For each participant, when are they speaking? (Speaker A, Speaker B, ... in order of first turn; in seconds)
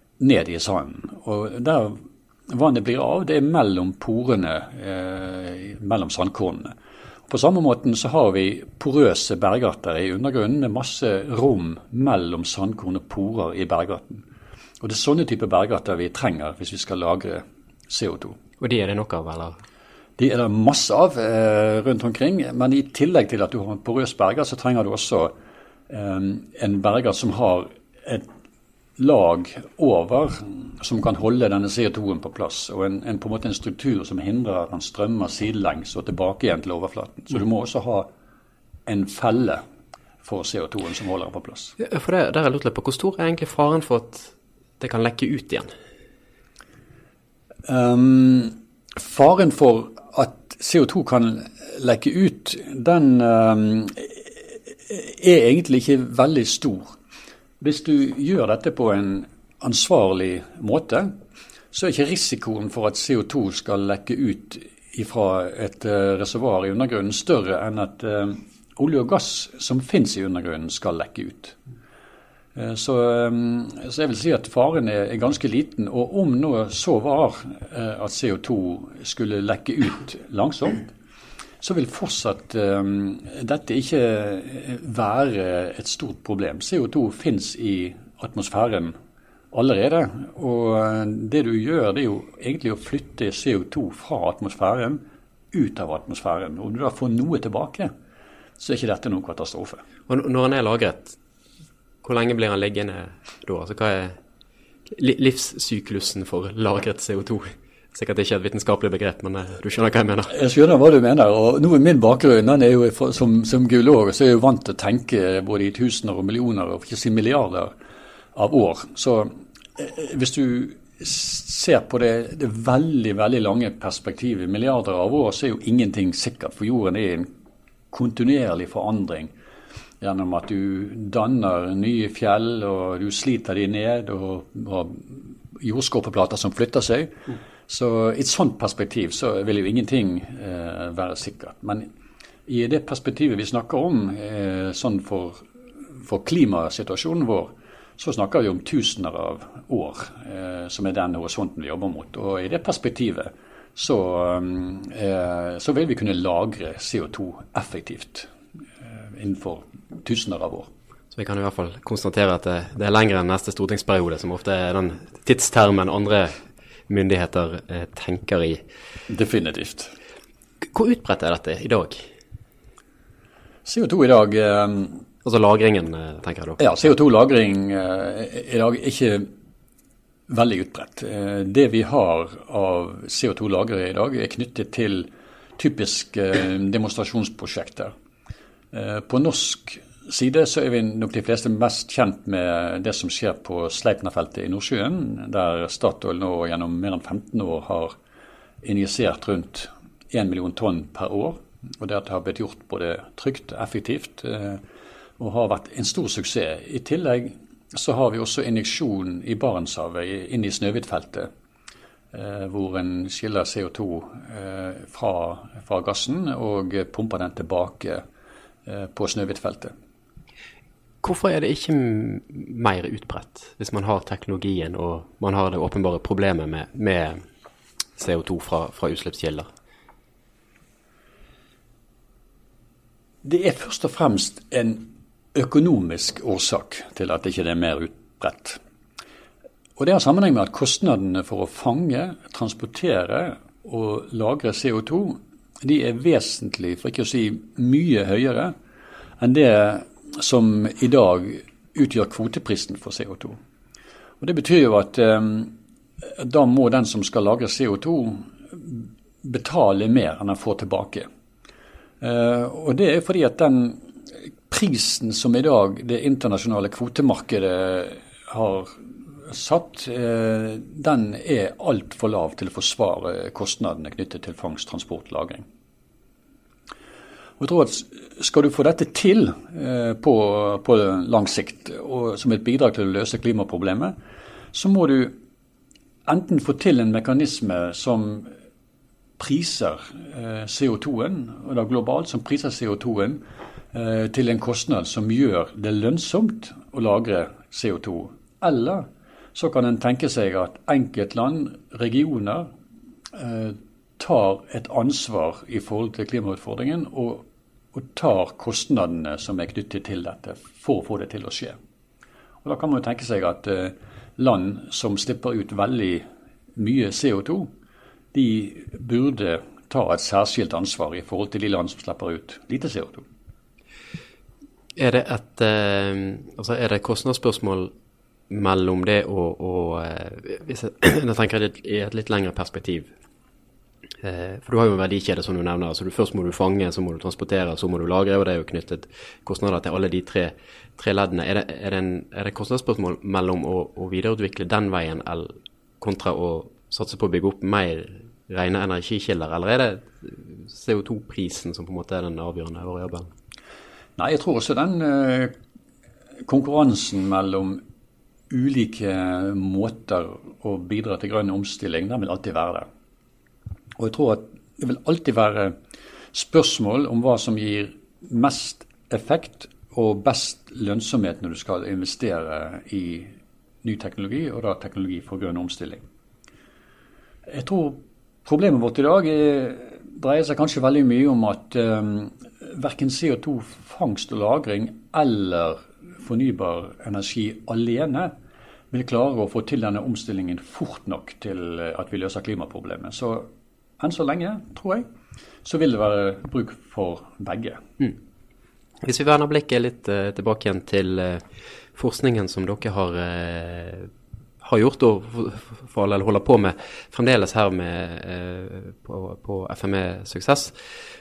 Speaker A: 0.2-6.7, 7.3-14.2, 14.8-18.4, 20.2-25.3, 25.9-28.3, 29.0-38.1, 38.9-39.6, 40.2-41.8, 47.7-57.0, 57.6-61.1, 61.7-71.6, 72.6-80.9, 81.6-88.9, 89.5-95.0, 95.5-97.9, 98.6-99.8, 110.3-117.7, 118.3-127.3, 127.9-129.3, 130.0-141.9, 142.5-158.3, 158.9-160.7, 169.1-169.9, 173.7-175.0, 176.6-179.3, 180.3-187.9, 188.7-197.9, 198.6-204.6, 205.2-211.3, 212.1-218.0, 218.7-219.7, 233.2-238.6, 239.8-248.5, 249.2-253.4, 254.2-255.5, 256.1-261.1, 262.0-263.8, 264.5-275.4, 277.4-283.9, 284.5-285.1, 286.1-288.3, 289.2-293.2, 293.7-302.5, 303.1-311.6, 312.4-316.1, 316.6-317.5, 318.1-323.1, 354.0-355.3, 356.2-357.6, 358.3-362.7, 363.8-365.6, 366.1-373.1, 373.6-375.8, 377.3-388.1, 388.7-393.3, 393.8-394.9, 395.4-397.6
Speaker B: 18.6-19.6, 41.8-45.7, 100.1-101.2, 102.0-104.2, 104.9-110.4, 161.1-166.3, 166.9-168.6, 170.7-172.1, 175.2-176.9, 221.0-227.2, 228.0-229.5, 324.8-327.7, 328.3-332.9, 334.0-353.1, 398.8-403.9, 404.4-410.7